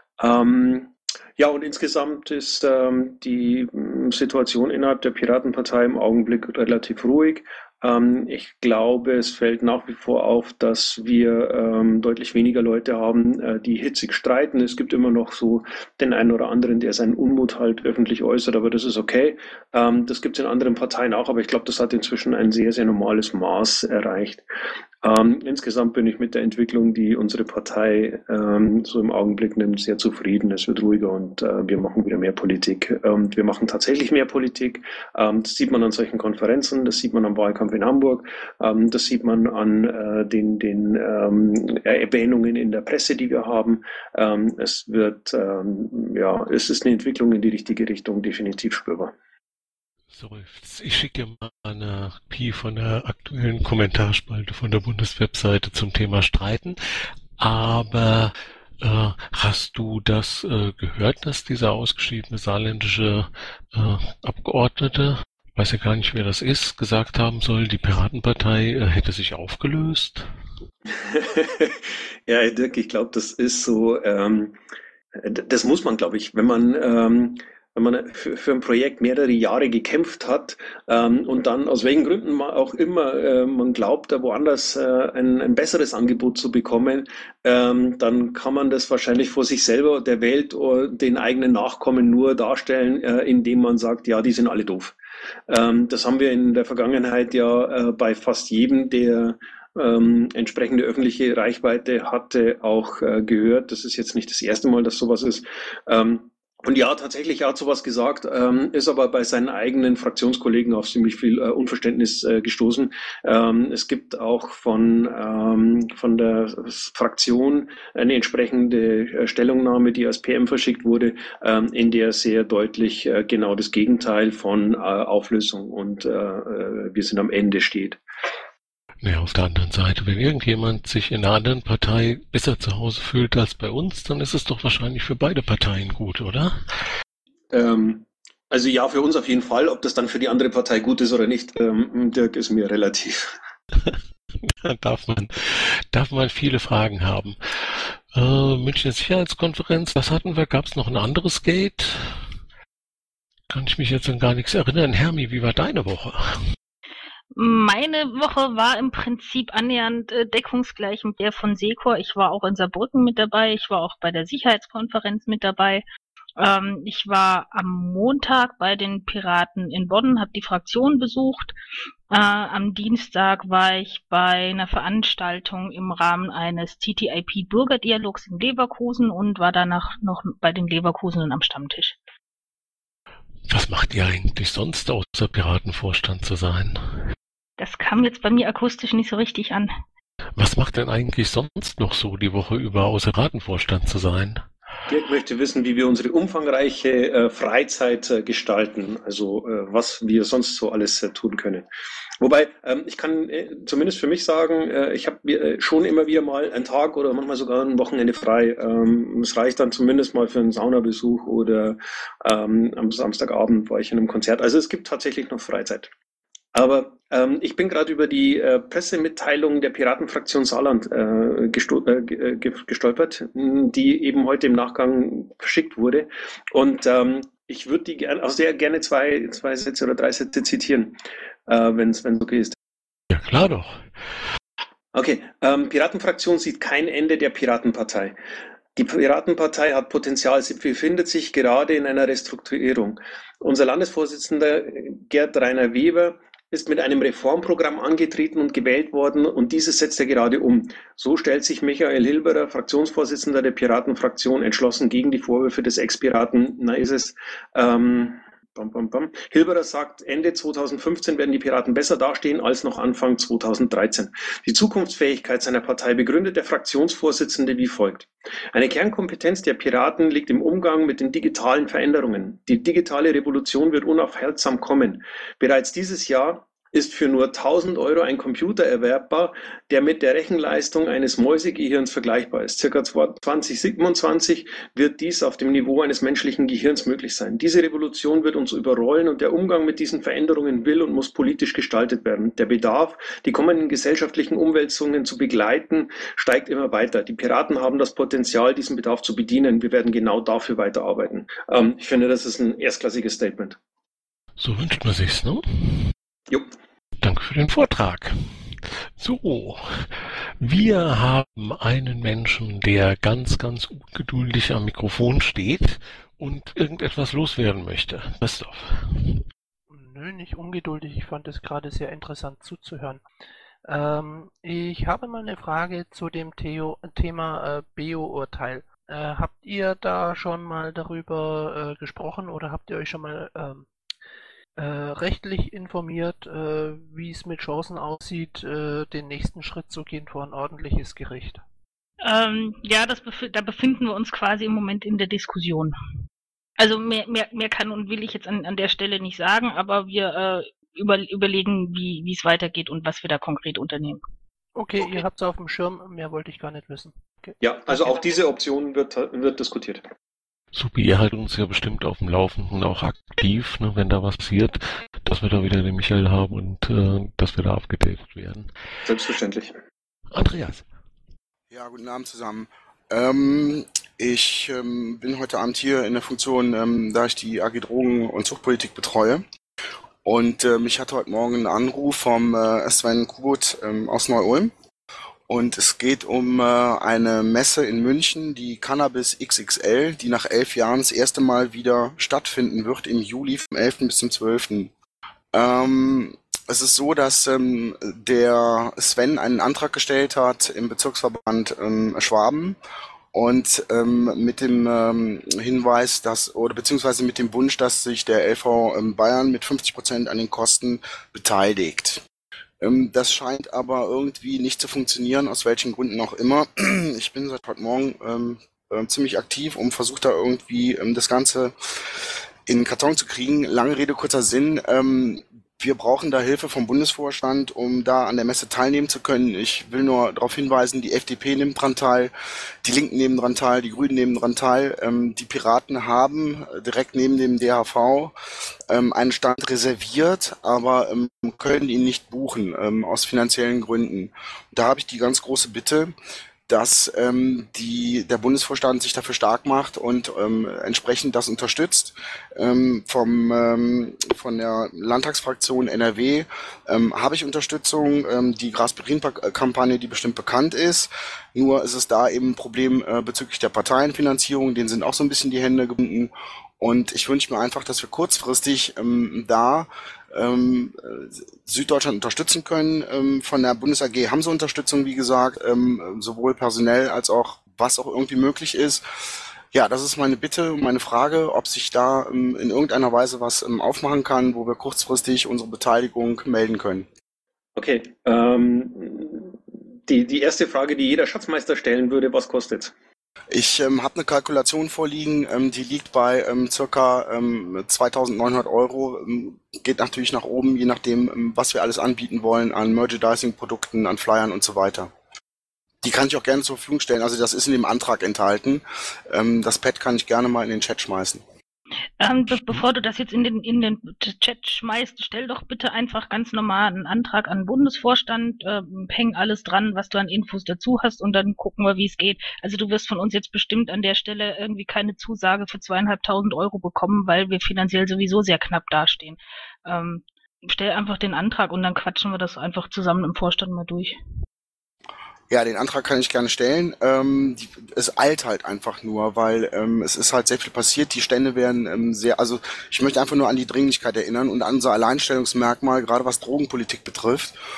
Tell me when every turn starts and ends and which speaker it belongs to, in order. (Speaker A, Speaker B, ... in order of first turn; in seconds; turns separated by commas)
Speaker A: 0.2-24.4, Speaker A: 25.0-49.1, Speaker B: 50.1-56.8, Speaker B: 57.4-70.2, Speaker A: 70.9-74.6, Speaker A: 75.2-95.0, Speaker A: 95.5-128.0, Speaker B: 129.0-136.6, Speaker A: 137.5-143.3, Speaker B: 143.8-152.2, Speaker B: 153.5-156.4, Speaker C: 157.3-165.8, Speaker C: 166.4-171.6, Speaker C: 172.1-182.0, Speaker B: 183.5-187.0, Speaker C: 187.6-189.7, Speaker B: 190.4-194.4, Speaker A: 194.9-201.7, Speaker A: 202.2-215.9, Speaker A: 216.5-232.6, Speaker B: 233.1-233.8, Speaker A: 234.9-238.2, Speaker A: 238.8-303.6, Speaker B: 304.4-305.9, Speaker B: 307.0-319.2, Speaker D: 319.7-323.0, Speaker D: 323.6-333.7, Speaker D: 334.6-341.4, Speaker C: 342.0-345.8, Speaker C: 346.6-354.0, Speaker D: 354.6-358.1, Speaker A: 357.4-359.8, Speaker B: 360.5-368.5, Speaker A: 368.9-369.6, Speaker B: 370.1-370.7, Speaker E: 371.5-379.2, Speaker E: 380.0-384.5, Speaker E: 385.3-394.7, Speaker E: 395.3-402.6, Speaker E: 403.1-412.0, Speaker E: 412.6-421.6, Speaker E: 422.5-432.1, Speaker E: 432.6-438.1, Speaker E: 438.7-445.9, Speaker E: 446.5-478.9, Speaker E: 479.5-486.9, Speaker A: 487.6-492.7, Speaker E: 493.3-504.9, Speaker E: 505.8-511.2, Speaker C: 512.0-534.0, Speaker E: 535.3-547.4